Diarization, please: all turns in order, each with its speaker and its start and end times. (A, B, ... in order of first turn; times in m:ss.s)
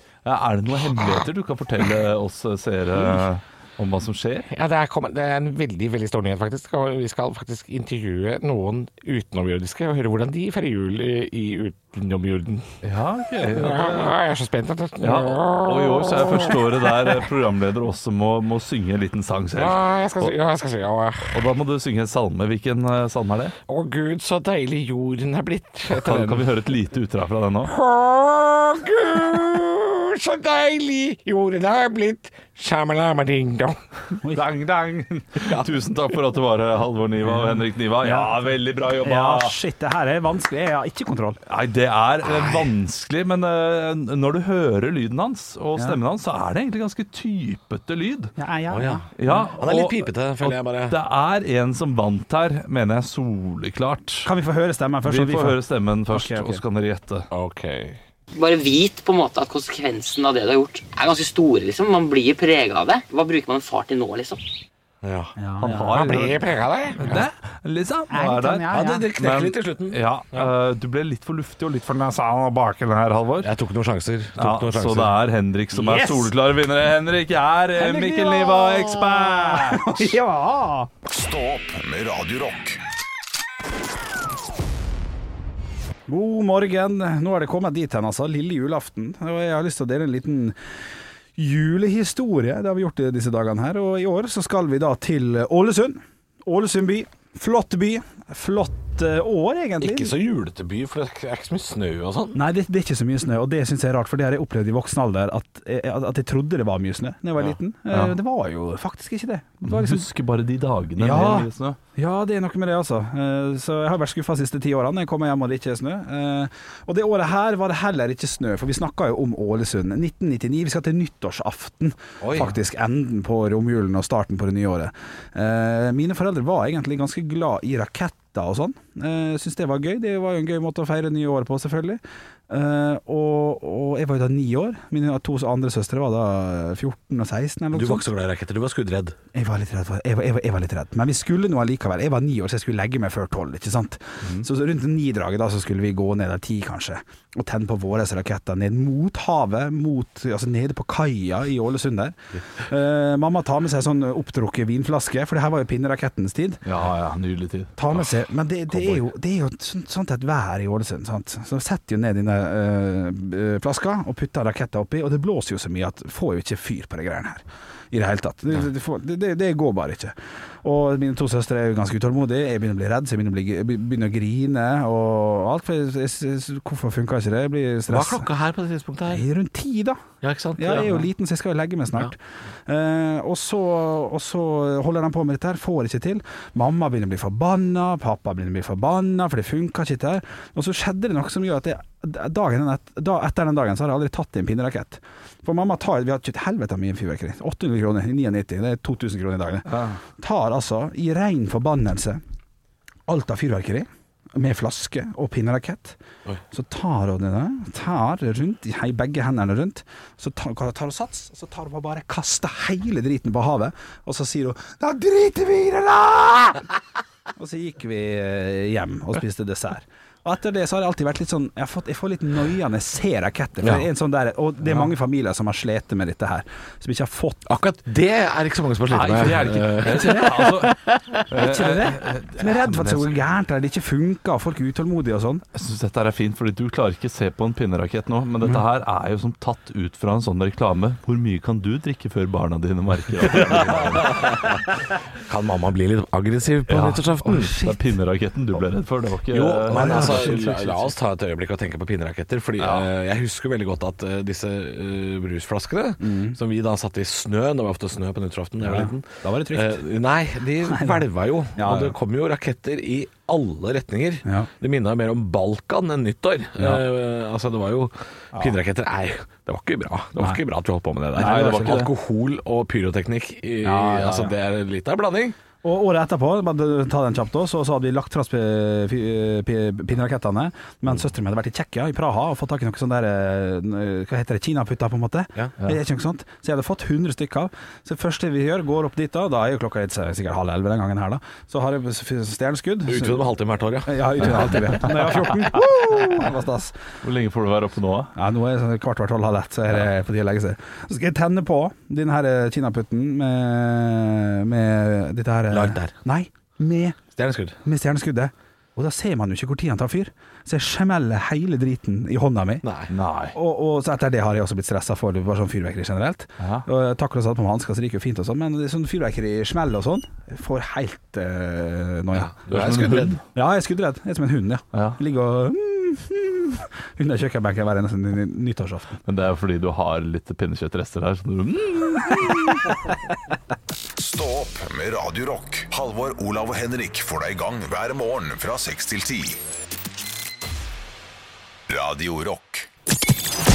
0:00.2-0:04.5 A
0:04.5-0:12.5 B
0:12.8-0:14.2 A
0:13.6-0:16.5 B
0:15.0-0:20.4 A
0:19.6-0:21.3 B
0:21.3-0:23.5 A
0:23.7-0:26.4 B
0:25.9-0:27.7 A
0:27.7-0:33.8 B
0:34.3-0:39.5 A
0:37.2-0:38.5 C
0:39.0-0:41.4 C
0:41.4-0:48.3 A
0:48.4-0:49.4 C
0:48.7-0:49.0 D
0:49.2-0:54.3 A
0:49.6-0:51.0 D
0:54.2-0:55.6 C
0:55.0-0:57.3 A
0:56.1-0:56.6 C
0:57.3-0:58.0 D
0:58.3-1:04.4 E
1:05.0-1:05.3 D
1:05.4-1:06.0 C
1:05.6-1:13.5 A
1:05.9-1:07.0 B
1:08.1-1:09.1 C
1:08.7-1:10.5 D
1:13.4-1:15.1 D
1:14.4-1:20.2 A
1:15.8-1:16.3 C
1:17.8-1:20.9 C
1:21.1-1:22.8 F
1:26.1-1:30.6 C
1:31.4-1:40.1 C
1:39.8-1:42.4 D
1:42.3-1:50.0 C
1:49.6-1:51.8 A
1:51.0-2:18.1 C
2:02.2-2:02.5 D
2:17.7-2:19.2 D
2:19.3-2:36.6 C
2:36.6-2:39.0 A
2:37.8-2:58.3 C
2:57.9-2:59.2 D
2:59.1-3:00.0 C
3:00.2-3:01.1 D
3:00.6-3:22.2 C
3:19.7-3:20.0 A
3:23.1-3:26.0 C
3:26.5-3:36.6 C
3:37.4-3:47.4 C
3:47.5-3:50.5 D
3:48.9-3:53.2 A
3:51.4-3:55.4 C
3:55.5-4:04.4 A
4:03.9-4:04.5 D
4:05.2-4:07.5 D
4:06.7-4:10.7 A
4:07.2-4:07.8 C
4:09.3-4:35.4 D
4:09.7-4:10.6 C
4:12.6-4:12.9 A
4:16.0-4:16.4 C
4:18.6-4:19.8 C
4:20.7-4:21.0 C
4:21.6-4:22.0 C
4:31.2-4:31.9 C
4:31.2-4:31.8 A
4:33.6-4:34.3 C
4:35.6-4:53.2 C
4:52.9-4:55.3 D
4:53.8-4:56.7 C
4:57.0-4:58.1 A
4:58.2-5:07.0 C
5:05.5-5:05.9 D
5:07.1-5:07.6 D
5:07.6-5:12.6 C
5:12.6-5:12.9 D
5:12.9-5:13.4 A
5:13.3-5:22.4 C
5:16.4-5:16.7 A
5:22.4-5:23.2 D
5:22.5-5:23.2 A
5:23.3-5:29.0 C
5:24.7-5:25.0 A
5:29.0-5:32.7 A
5:34.0-5:39.4 F
5:41.7-5:42.7 F